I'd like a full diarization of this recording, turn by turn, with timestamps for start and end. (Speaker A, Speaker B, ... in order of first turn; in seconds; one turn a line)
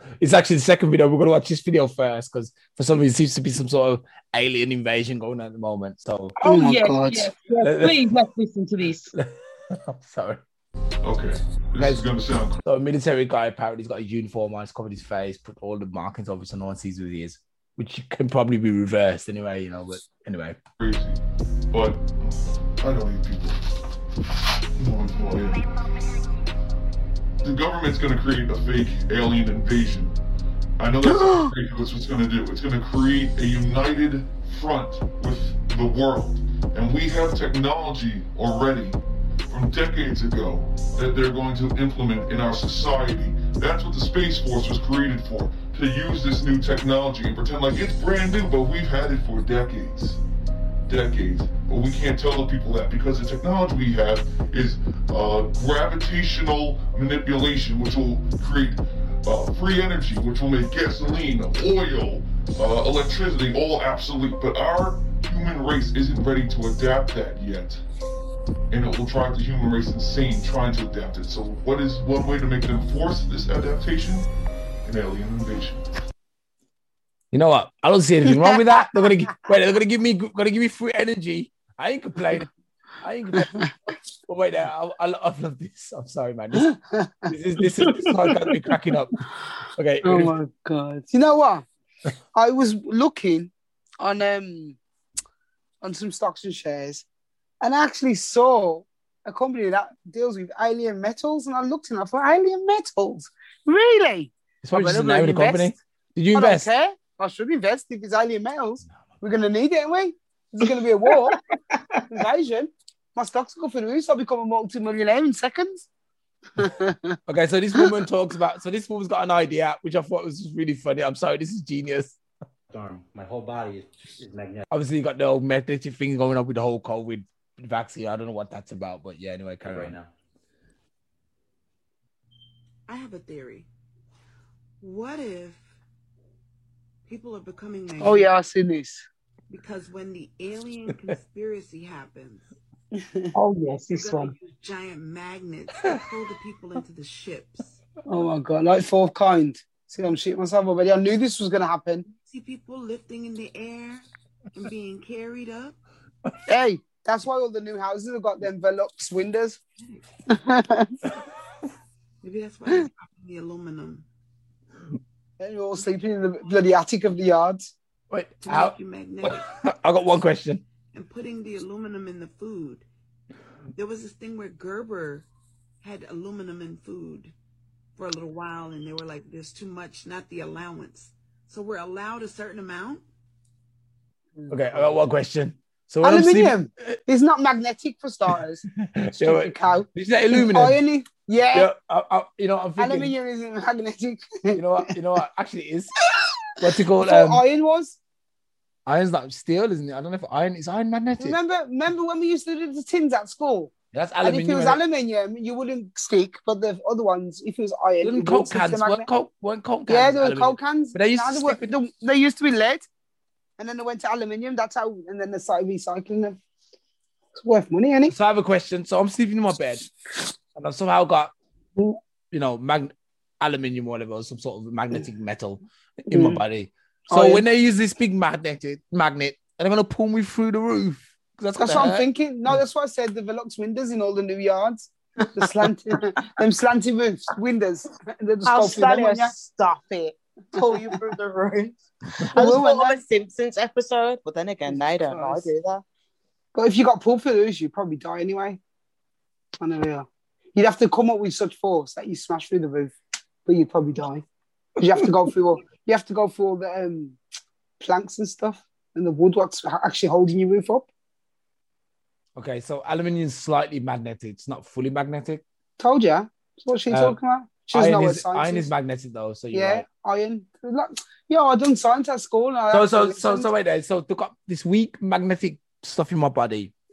Speaker A: 0.2-6.3
Speaker B: 6.4-9.1
Speaker C: 6.4-7.3
Speaker A: 7.6-8.0
Speaker A: 9.1-10.4
Speaker D: 11.0-12.6
Speaker A: 11.8-12.1
Speaker A: 12.6-20.6
Speaker D: 20.8-23.6
Speaker D: 24.8-25.6
Speaker D: 27.4-30.1
Speaker D: 30.8-39.0
Speaker D: 39.5-50.2
Speaker D: 50.9-67.8
Speaker D: 68.7-74.3
Speaker D: 74.8-75.8
Speaker A: 77.3-82.5
Speaker C: 78.3-78.6
Speaker A: 83.0-83.5
Speaker C: 83.3-83.7
Speaker A: 84.3-86.7
Speaker C: 86.7-87.3
Speaker A: 87.3-89.2
Speaker A: 89.8-90.3
Speaker C: 90.0-91.6
Speaker C: 92.3-94.8
Speaker C: 95.8-97.0
Speaker C: 97.6-105.7
Speaker A: 104.6-106.7
Speaker C: 106.3-111.4
Speaker B: 111.3-112.0
Speaker C: 112.1-115.9
Speaker C: 116.6-117.2
Speaker A: 117.3-122.2
Speaker E: 122.7-124.6
Speaker A: 124.7-129.9
Speaker E: 129.6-130.1
Speaker F: 132.9-133.7
Speaker F: 134.8-135.6
Speaker F: 137.1-138.3
Speaker C: 138.0-139.1
Speaker F: 139.5-142.4
Speaker C: 142.9-143.3
Speaker B: 143.3-144.3
Speaker F: 143.9-147.6
Speaker C: 148.1-152.1
Speaker F: 152.3-154.0
Speaker F: 154.6-155.7
Speaker C: 156.5-159.6
Speaker C: 160.3-160.9
Speaker F: 162.2-164.0
Speaker C: 165.4-167.7
Speaker A: 168.1-170.6
Speaker F: 168.4-169.3
Speaker F: 170.9-172.8
Speaker F: 173.8-175.2
Speaker F: 175.8-177.3
Speaker F: 178.0-183.0
Speaker C: 184.4-184.9
Speaker A: 184.5-187.0
Speaker C: 186.0-191.7
Speaker A: 188.8-190.8
Speaker A: 191.5-193.1
Speaker C: 192.8-194.6
Speaker A: 194.5-195.9
Speaker A: 196.6-197.4
Speaker C: 197.0-198.0
Speaker A: 198.8-201.4
Speaker C: 201.2-209.1
Speaker A: 203.9-204.8
Speaker A: 208.0-211.7
Speaker C: 209.9-212.9
Speaker C: 213.6-216.4
Speaker C: 217.3-218.1
Speaker A: 218.1-219.8
Speaker A: 220.6-221.3
Speaker A: 222.3-232.0
Speaker C: 226.1-226.4
Speaker C: 227.1-227.4
Speaker C: 231.6-239.3
Speaker G: 238.4-245.8
Speaker C: 242.3-243.0
Speaker C: 244.7-245.5
Speaker C: 246.5-248.6
Speaker C: 249.6-252.9
Speaker C: 253.4-254.2
Speaker C: 254.8-257.2
Speaker C: 257.8-260.9
Speaker A: 262.4-265.4
Speaker C: 265.8-268.7
Speaker A: 266.9-267.2
Speaker A: 267.7-269.8
Speaker C: 269.5-273.5
Speaker A: 272.7-276.7